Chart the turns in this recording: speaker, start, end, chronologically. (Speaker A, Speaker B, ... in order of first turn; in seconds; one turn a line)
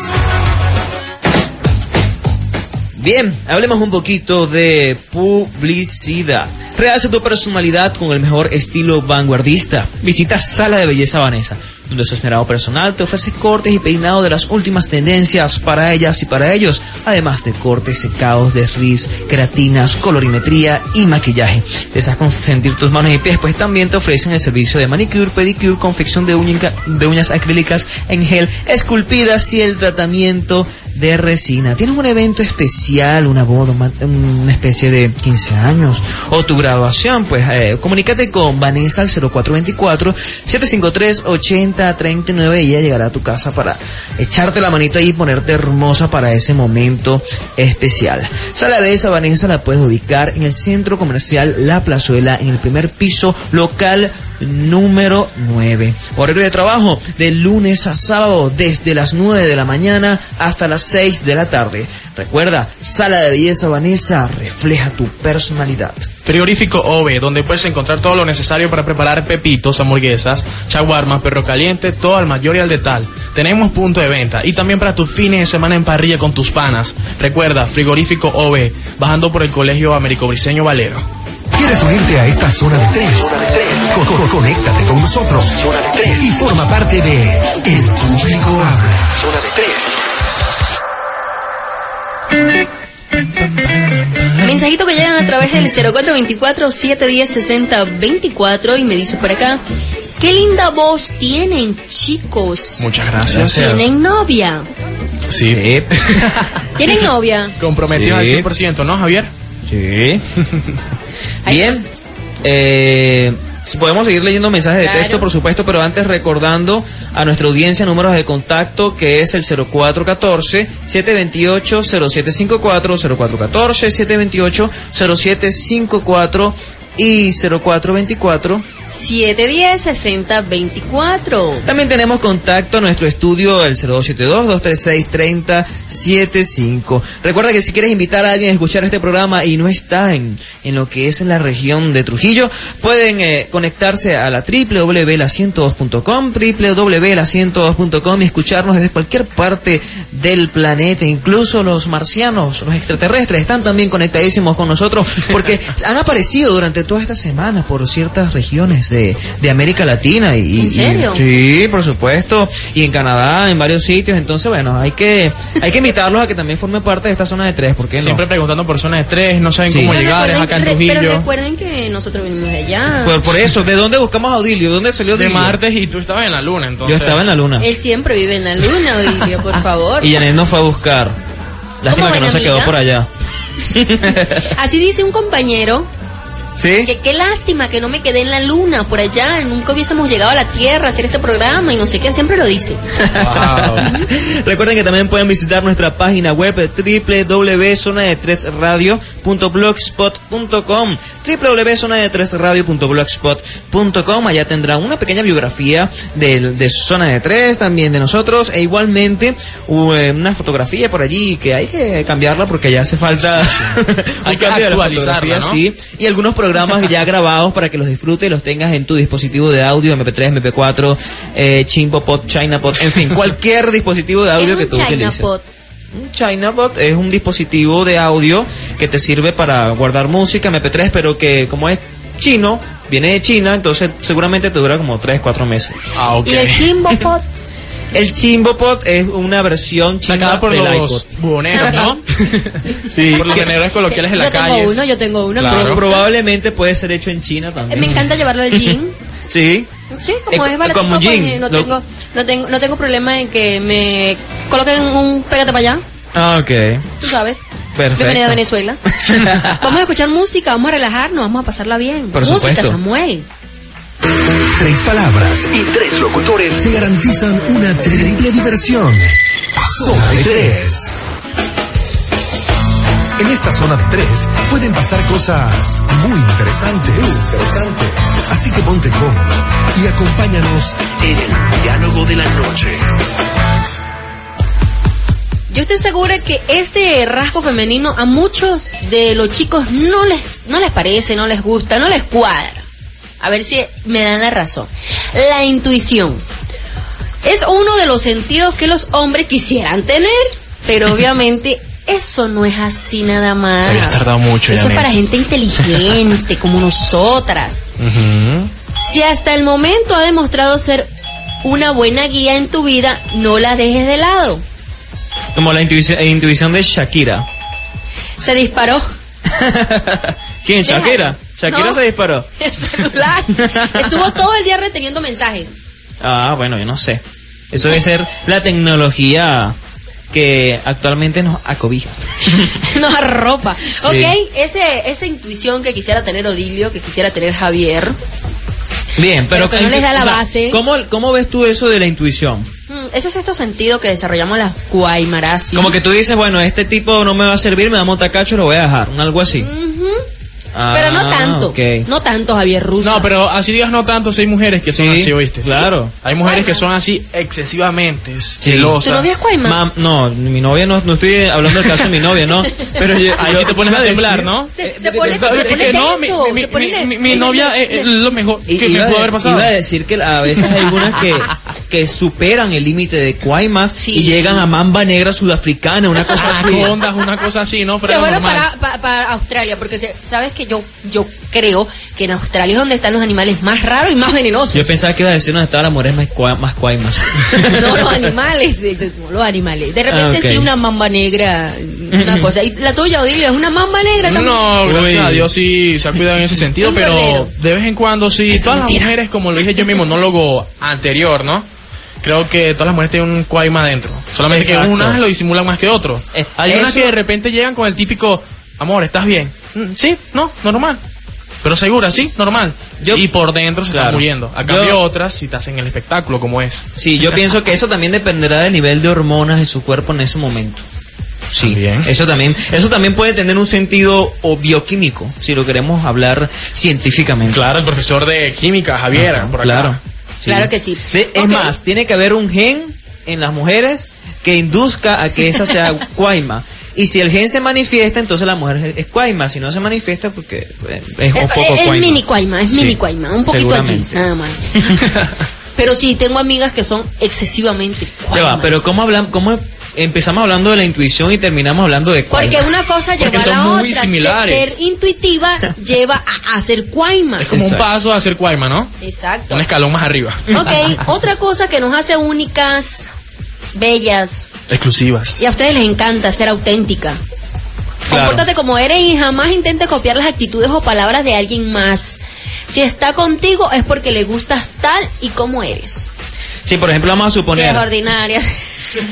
Speaker A: 3.0-66.1
Speaker B: 66.2-81.1
Speaker C: 81.5-89.9
Speaker B: 93.2-94.6
Speaker D: 94.4-99.6
Speaker D: 100.2-104.7
Speaker B: 102.8-103.9
Speaker B: 105.3-106.9
Speaker A: 105.5-106.3
Speaker D: 106.8-107.5
Speaker B: 107.6-109.3
Speaker A: 108.0-108.5
Speaker A: 109.7-110.2
Speaker A: 111.5-111.8
Speaker D: 111.5-111.9
Speaker A: 112.4-128.7
Speaker D: 114.8-115.3
Speaker D: 128.9-131.7
Speaker A: 131.7-168.2
Speaker D: 160.6-161.2
Speaker B: 168.0-171.3
Speaker A: 169.7-169.9
Speaker D: 169.9-173.2
Speaker A: 173.0-175.6
Speaker B: 175.1-177.2
Speaker A: 176.8-177.7
Speaker D: 177.6-180.2
Speaker A: 180.0-181.2
Speaker A: 181.8-183.1
Speaker D: 181.9-182.7
Speaker A: 183.7-184.5
Speaker D: 184.4-185.9
Speaker A: 186.6-186.9
Speaker D: 186.8-192.8
Speaker A: 193.0-225.3
Speaker B: 193.2-193.9
Speaker D: 193.8-194.1
Speaker B: 213.2-215.6
Speaker D: 224.4-225.4
Speaker A: 225.9-235.8
Speaker B: 235.9-236.7
Speaker D: 236.2-237.2
Speaker A: 237.9-241.1
Speaker B: 240.1-244.8
Speaker D: 241.5-242.0
Speaker A: 242.8-243.5
Speaker D: 243.3-246.1
Speaker B: 245.4-245.8
Speaker A: 245.4-248.8
Speaker D: 247.7-249.0
Speaker A: 249.3-249.7
Speaker D: 249.9-255.8
Speaker A: 250.3-251.7
Speaker A: 256.1-256.9
Speaker D: 257.0-257.4
Speaker A: 257.8-258.4
Speaker D: 258.0-258.8
Speaker A: 259.0-259.8
Speaker D: 259.4-263.3
Speaker A: 262.1-262.8
Speaker C: 264.5-271.0
Speaker C: 273.2-282.9
Speaker D: 285.5-292.7
Speaker D: 293.2-296.2
Speaker D: 297.2-307.6
Speaker B: 303.6-305.0
Speaker B: 307.8-308.5
Speaker D: 308.8-310.9
Speaker D: 311.4-314.4
Speaker A: 315.4-317.3
Speaker D: 318.2-318.9
Speaker A: 319.3-322.3
Speaker D: 320.6-321.8
Speaker D: 322.4-325.5
Speaker A: 323.4-324.1
Speaker A: 326.0-329.6
Speaker A: 330.1-332.6
Speaker D: 332.3-338.0
Speaker A: 333.7-334.1
Speaker A: 339.0-342.5
Speaker D: 339.3-340.6
Speaker D: 342.7-345.8
Speaker A: 345.5-349.5
Speaker D: 349.3-350.0
Speaker A: 350.6-351.9
Speaker D: 350.7-353.1
Speaker B: 352.8-359.1
Speaker A: 354.8-355.9
Speaker D: 356.2-356.6
Speaker A: 358.4-358.8
Speaker D: 358.8-359.6
Speaker A: 359.4-365.9
Speaker B: 361.6-361.9
Speaker B: 363.2-364.5
Speaker D: 364.6-367.9
Speaker B: 365.1-369.5
Speaker A: 368.5-376.7
Speaker D: 373.8-374.5
Speaker D: 376.1-376.5
Speaker B: 376.1-378.5
Speaker D: 377.9-384.7
Speaker A: 384.5-388.0
Speaker D: 387.4-394.4
Speaker A: 389.9-390.5
Speaker A: 391.9-392.3
Speaker B: 394.0-401.5
Speaker A: 394.6-395.3
Speaker D: 396.6-397.3
Speaker D: 398.3-398.9
Speaker B: 402.0-410.8
Speaker A: 404.3-405.0
Speaker A: 406.1-406.9
Speaker B: 411.4-416.7
Speaker A: 412.8-413.1
Speaker A: 413.7-414.8
Speaker A: 416.8-420.6
Speaker A: 421.3-427.4
Speaker B: 421.4-421.9
Speaker B: 427.3-429.8
Speaker A: 428.9-444.0
Speaker D: 430.3-431.5
Speaker D: 441.1-444.8
Speaker A: 444.6-444.8
Speaker D: 445.6-448.6
Speaker A: 448.1-452.5
Speaker D: 452.1-457.3
Speaker B: 453.0-454.6
Speaker B: 457.2-458.7
Speaker A: 457.3-457.7
Speaker D: 458.8-459.4
Speaker B: 459.3-460.7
Speaker D: 460.3-462.9
Speaker D: 463.6-464.2
Speaker B: 464.5-465.2
Speaker D: 465.2-467.0
Speaker D: 467.9-475.9
Speaker A: 467.9-468.3
Speaker A: 476.5-477.7
Speaker D: 477.3-478.4